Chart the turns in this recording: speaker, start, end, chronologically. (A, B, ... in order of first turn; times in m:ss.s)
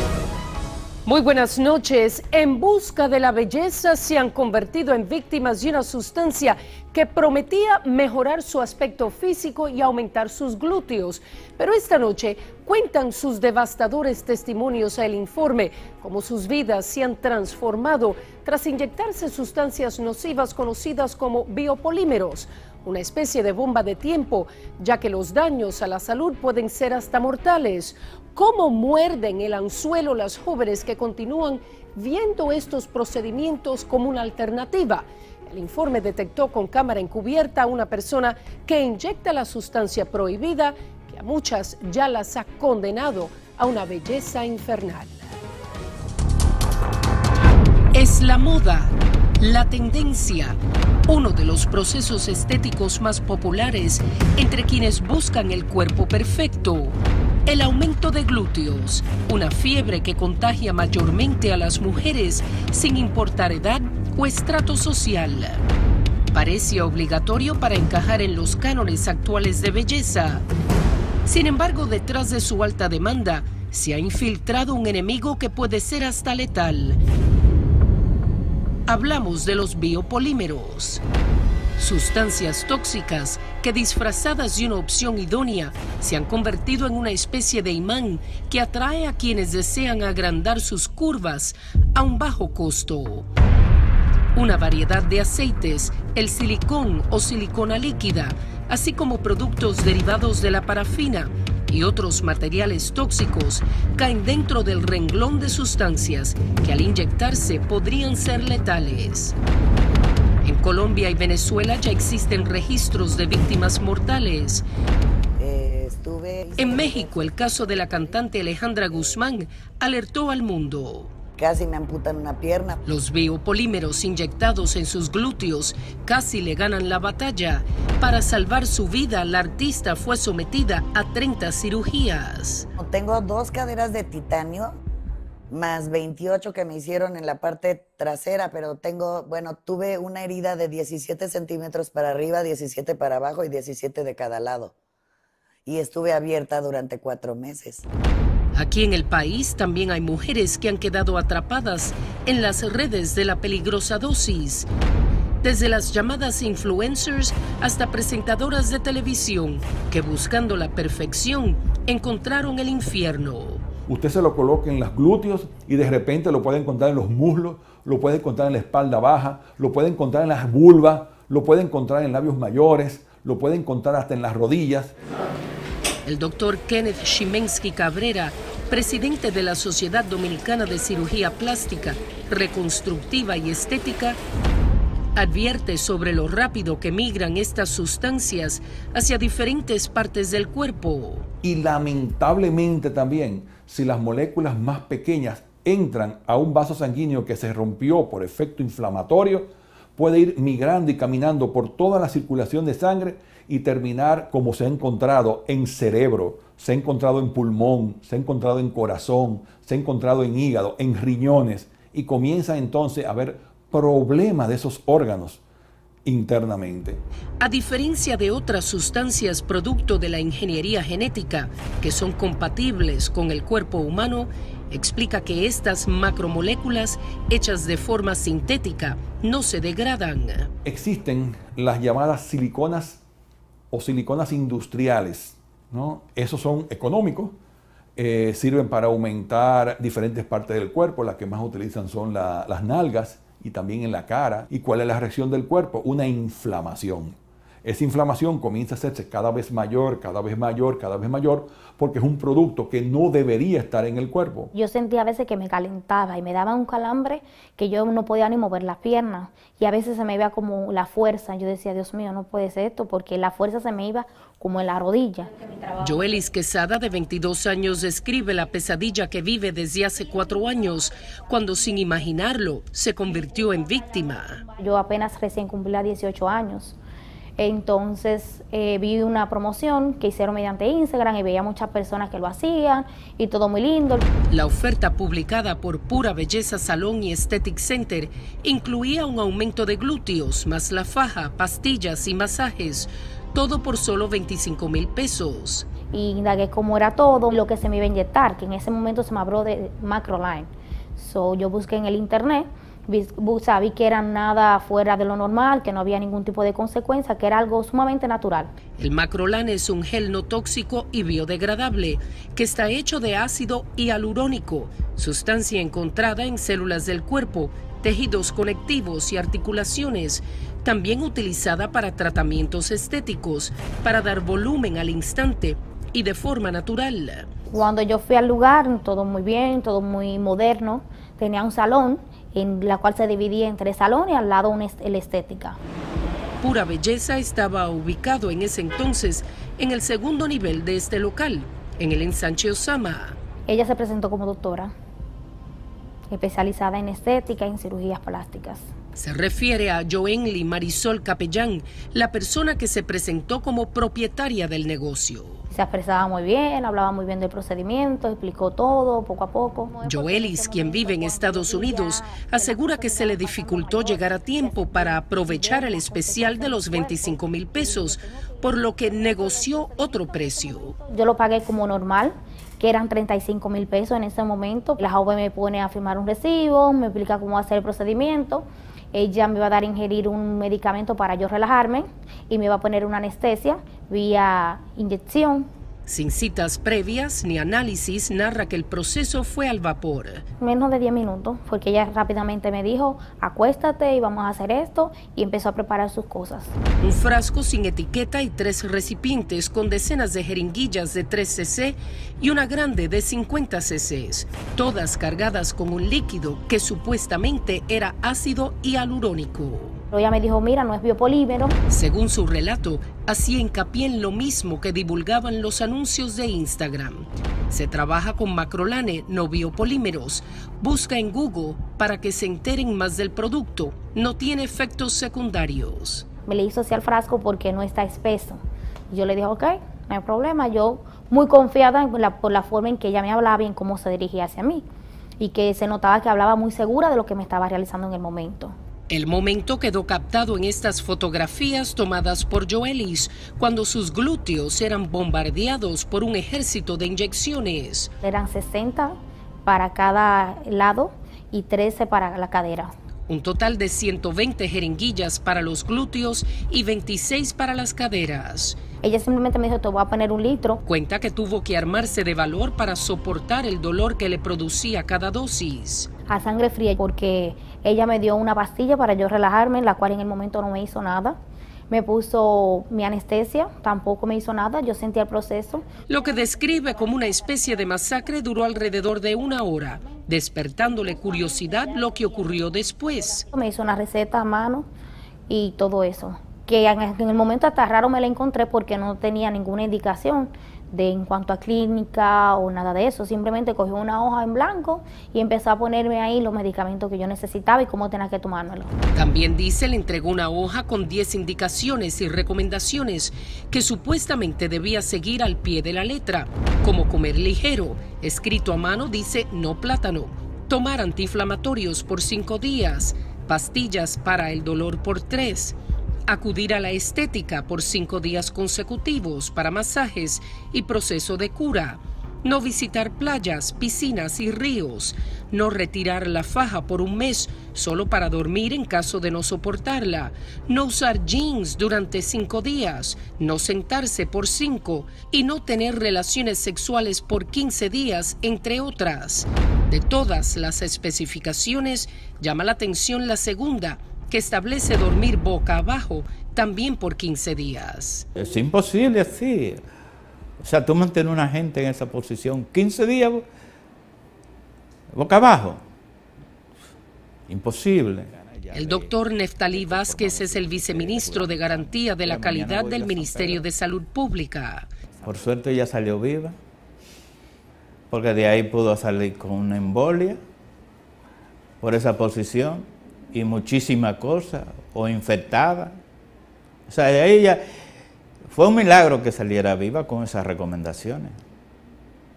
0:01.1-0:45.2 A
0:47.9-1:05.6 A
1:06.3-1:10.4 A
1:11.2-1:17.0 A
1:18.9-1:21.0 A
1:21.8-1:33.3 A
1:34.3-1:49.4 A
1:50.4-1:54.6 A
1:55.4-1:58.3 B
1:56.6-2:01.1 A
1:58.9-1:59.2 B
2:01.4-2:02.8 B
2:02.9-2:12.7 A
2:12.8-2:14.8 B
2:15.5-2:24.7 B
2:25.7-2:27.8 B
2:28.5-2:34.7 A
2:35.4-2:43.6 A
2:43.9-2:54.9 C
2:56.0-3:04.2 A
3:05.2-3:11.3 A
3:11.4-3:35.4 C
3:36.0-3:37.0 C
3:37.4-3:50.5 A
3:50.6-3:53.0 C
3:53.7-3:57.4 C
3:58.0-4:14.5 C
4:14.5-4:25.7 D
4:25.8-4:34.4 A
4:34.3-4:36.8 D
4:37.4-4:44.1 D
4:44.3-4:55.7 A
4:55.9-5:08.5 D
5:08.8-5:27.3 A
5:27.5-5:35.6 D
5:36.4-5:43.2 A
5:43.5-5:44.7 D
5:46.1-5:48.7 D
5:49.0-5:55.4 A
5:55.5-6:25.5 D
5:59.8-6:10.7 A
6:25.9-6:30.2 A
6:30.4-6:36.6 D
6:36.8-6:49.8 A
6:49.9-6:51.6 D
6:51.7-7:06.0 A
7:06.3-7:14.7 D
7:15.2-7:18.6 D
7:18.9-7:27.9 A
7:28.0-7:32.7 D
7:33.1-7:38.6 A
7:38.8-7:40.6 D
7:40.6-7:45.9 A
7:46.1-7:51.2 D
7:51.7-7:55.8 D
7:55.9-8:03.3 A
8:03.3-8:04.7 D
8:05.3-8:18.7 D
8:18.9-8:35.6 A
8:36.1-9:08.1 A
9:08.2-9:09.6 E
9:10.4-9:13.3 E
9:14.9-9:15.6 E
9:17.3-9:23.5 E
9:18.5-9:24.7 A
9:25.0-9:26.4 E
9:27.9-9:30.2 E
9:31.6-9:35.8 E
9:36.7-9:37.4 E
9:38.3-9:41.2 E